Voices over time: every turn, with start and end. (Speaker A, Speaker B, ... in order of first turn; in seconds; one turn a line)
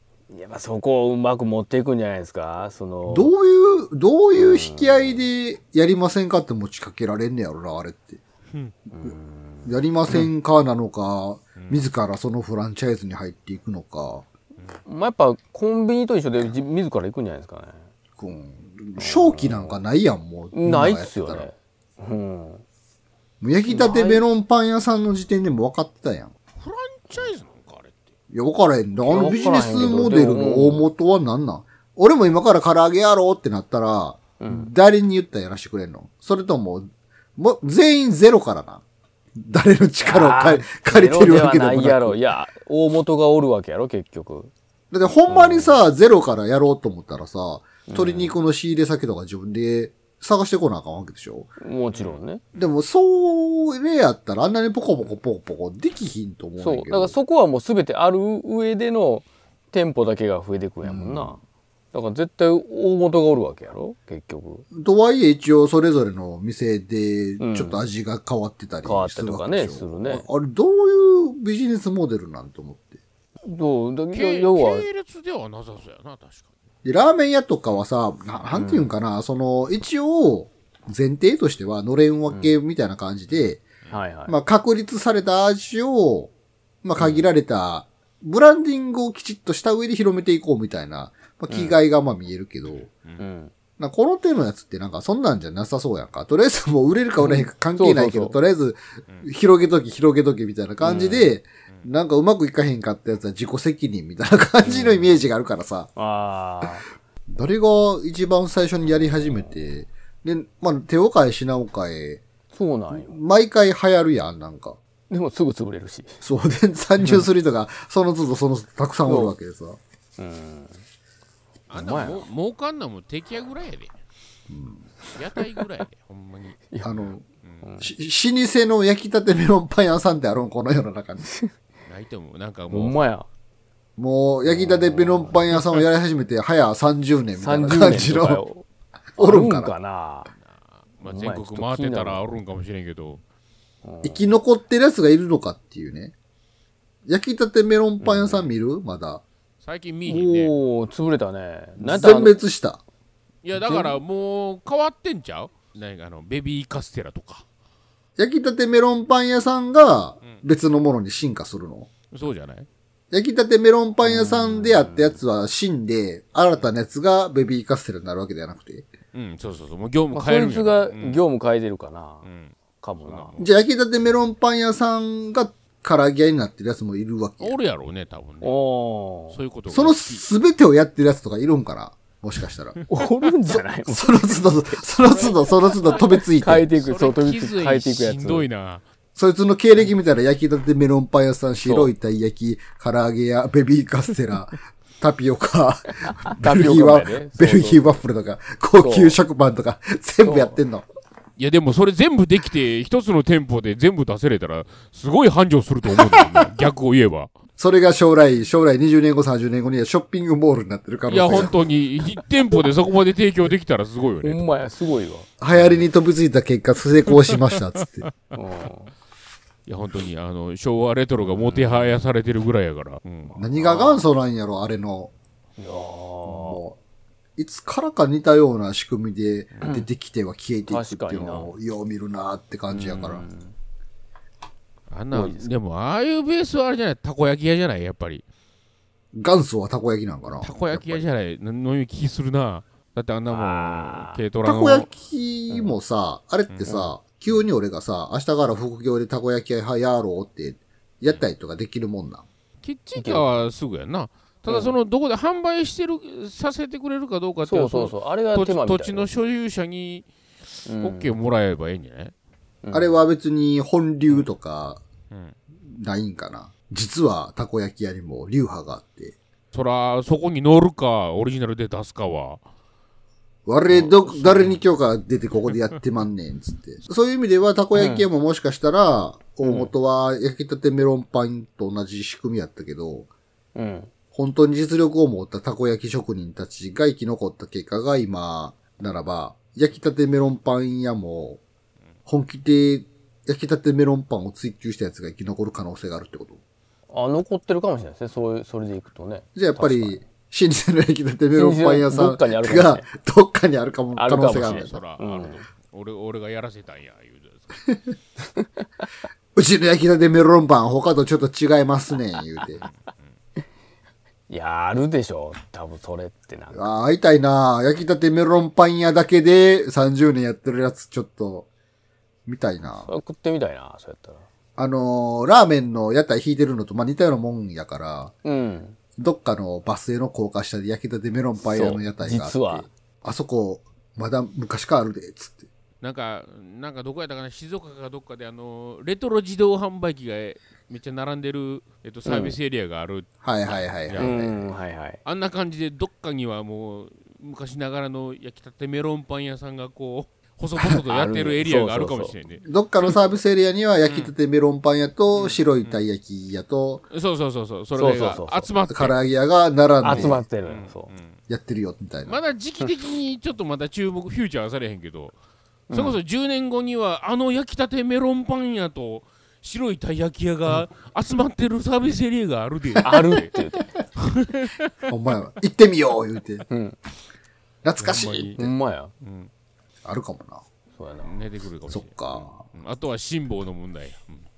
Speaker A: 0.3-3.3
Speaker B: 3.1-8.2
Speaker A: 4.3-5.3
Speaker A: 8.9-10.3
Speaker B: 9.0-14.3
Speaker C: 11.6-11.9
Speaker A: 14.8-17.8
Speaker B: 18.2-21.5
Speaker A: 19.0-19.8
Speaker A: 20.5-22.6
Speaker B: 23.4-26.3
Speaker A: 23.7-24.2
Speaker C: 26.6-28.0
Speaker B: 28.3-38.8
Speaker A: 29.0-30.9
Speaker A: 34.4-34.7
Speaker B: 39.4-42.2
Speaker A: 40.0-44.5
Speaker B: 44.9-51.6
Speaker A: 45.3-45.8
Speaker A: 47.9-48.4
Speaker A: 51.6-52.4
Speaker C: 51.9-52.7
Speaker B: 52.5-57.2
Speaker A: 56.6-61.4
Speaker B: 60.8-61.4
Speaker A: 61.9-64.7
Speaker B: 64.7-73.0
Speaker A: 67.4-67.8
Speaker A: 68.8-70.3
Speaker A: 73.4-74.9
Speaker C: 74.1-76.5
Speaker B: 76.8-83.6
Speaker A: 78.5-78.9
Speaker A: 82.3-82.6
Speaker C: 83.3-84.0
Speaker A: 83.9-84.4
Speaker B: 84.3-86.3
Speaker B: 86.8-92.9
Speaker A: 87.0-87.3
Speaker A: 91.5-91.8
Speaker C: 92.9-93.2
Speaker A: 93.2-93.5
Speaker B: 93.8-105.9
Speaker A: 97.2-98.4
Speaker A: 100.8-101.3
Speaker A: 104.6-105.2
Speaker A: 106.0-106.9
Speaker B: 107.3-112.2
Speaker A: 112.5-113.2
Speaker B: 112.9-114.8
Speaker A: 115.1-116.2
Speaker B: 116.2-119.8
Speaker A: 119.0-119.4
Speaker A: 120.2-120.8
Speaker C: 121.7-123.9
Speaker A: 121.7-122.3
Speaker B: 124.5-124.9
Speaker C: 125.1-126.6
Speaker A: 126.7-127.1
Speaker B: 126.8-127.2
Speaker C: 127.4-127.7
Speaker A: 127.6-127.9
Speaker B: 127.8-131.3
Speaker C: 131.8-133.0
Speaker A: 132.7-133.3
Speaker B: 134.0-138.4
Speaker A: 134.4-135.5
Speaker A: 137.3-138.7
Speaker B: 139.2-139.7
Speaker A: 139.2-140.3
Speaker C: 140.3-143.2
Speaker A: 141.0-142.2
Speaker A: 143.8-144.3
Speaker B: 144.0-146.1
Speaker B: 147.1-149.2
Speaker A: 148.0-148.5
Speaker C: 149.6-150.5
Speaker A: 150.1-152.4
Speaker B: 151.8-152.8
Speaker C: 153.4-157.4
Speaker A: 153.5-154.0
Speaker B: 158.2-161.9
Speaker C: 162.1-162.7
Speaker B: 163.1-168.9
Speaker A: 164.0-165.2
Speaker C: 169.1-171.2
Speaker A: 170.1-172.3
Speaker C: 172.2-173.4
Speaker A: 172.8-173.5
Speaker B: 173.4-177.6
Speaker C: 177.4-178.6
Speaker A: 178.4-179.4
Speaker C: 179.3-180.3
Speaker B: 179.7-182.8
Speaker A: 182.9-188.5
Speaker B: 183.5-186.7
Speaker C: 185.2-186.2
Speaker C: 186.7-188.8
Speaker B: 189.2-200.9
Speaker A: 191.6-191.9
Speaker A: 196.3-198.0
Speaker A: 198.7-199.2
Speaker A: 200.2-200.6
Speaker C: 201.4-207.3
Speaker B: 207.6-211.6
Speaker C: 211.1-214.5
Speaker A: 214.2-215.3
Speaker B: 215.4-218.1
Speaker C: 215.5-215.9
Speaker C: 217.1-218.1
Speaker A: 218.3-218.9
Speaker C: 219.7-223.4
Speaker A: 221.2-222.0
Speaker B: 223.3-225.1
Speaker A: 223.5-224.1
Speaker A: 225.6-226.6
Speaker B: 226.2-226.8
Speaker B: 227.4-233.2
Speaker A: 229.6-229.9
Speaker A: 230.7-231.5
Speaker A: 232.7-233.6
Speaker C: 234.9-238.2
Speaker A: 235.1-235.5
Speaker B: 239.1-241.1
Speaker C: 240.4-244.9
Speaker A: 243.3-244.2
Speaker B: 244.4-252.3
Speaker A: 245.5-245.8
Speaker C: 246.5-247.4
Speaker C: 252.6-260.1
Speaker A: 253.0-253.4
Speaker A: 254.5-254.8
Speaker A: 257.4-259.1
Speaker C: 260.6-262.1
Speaker A: 260.6-261.1
Speaker A: 262.6-263.1
Speaker B: 262.7-264.8
Speaker B: 265.6-269.2
Speaker C: 269.5-272.4
Speaker B: 273.5-283.1
Speaker A: 273.7-274.6
Speaker A: 277.7-278.1
Speaker A: 279.4-279.7
Speaker A: 283.6-283.9
Speaker B: 284.1-291.4
Speaker B: 292.1-296.4
Speaker A: 296.9-300.0
Speaker B: 299.4-304.8
Speaker A: 301.4-302.9
Speaker A: 303.9-305.5
Speaker C: 304.3-307.6
Speaker B: 309.4-312.6
Speaker A: 314.3-316.7
Speaker B: 316.5-321.5
Speaker B: 322.3-322.9
Speaker A: 322.8-324.2
Speaker B: 324.6-328.1
Speaker A: 328.2-328.8
Speaker B: 329.0-335.5
Speaker A: 331.4-332.7
Speaker C: 335.8-344.2
Speaker A: 342.1-342.4
Speaker B: 343.2-344.5
Speaker A: 343.9-345.0
Speaker C: 345.1-353.2
Speaker A: 350.9-352.2
Speaker B: 352.4-356.8
Speaker C: 353.9-354.1
Speaker C: 355.1-355.8
Speaker C: 356.9-359.0
Speaker A: 357.8-358.5
Speaker B: 358.7-360.2
Speaker A: 359.8-360.9
Speaker C: 359.8-361.2
Speaker B: 361.3-362.2
Speaker C: 362.1-365.1
Speaker A: 365.7-366.0
Speaker C: 365.7-374.9
Speaker A: 372.8-373.6
Speaker B: 374.9-376.5
Speaker A: 376.5-376.8
Speaker B: 377.6-378.4
Speaker C: 377.8-379.3
Speaker A: 378.4-378.9
Speaker B: 379.9-380.4
Speaker A: 380.7-381.2
Speaker C: 381.0-384.2
Speaker B: 381.7-382.4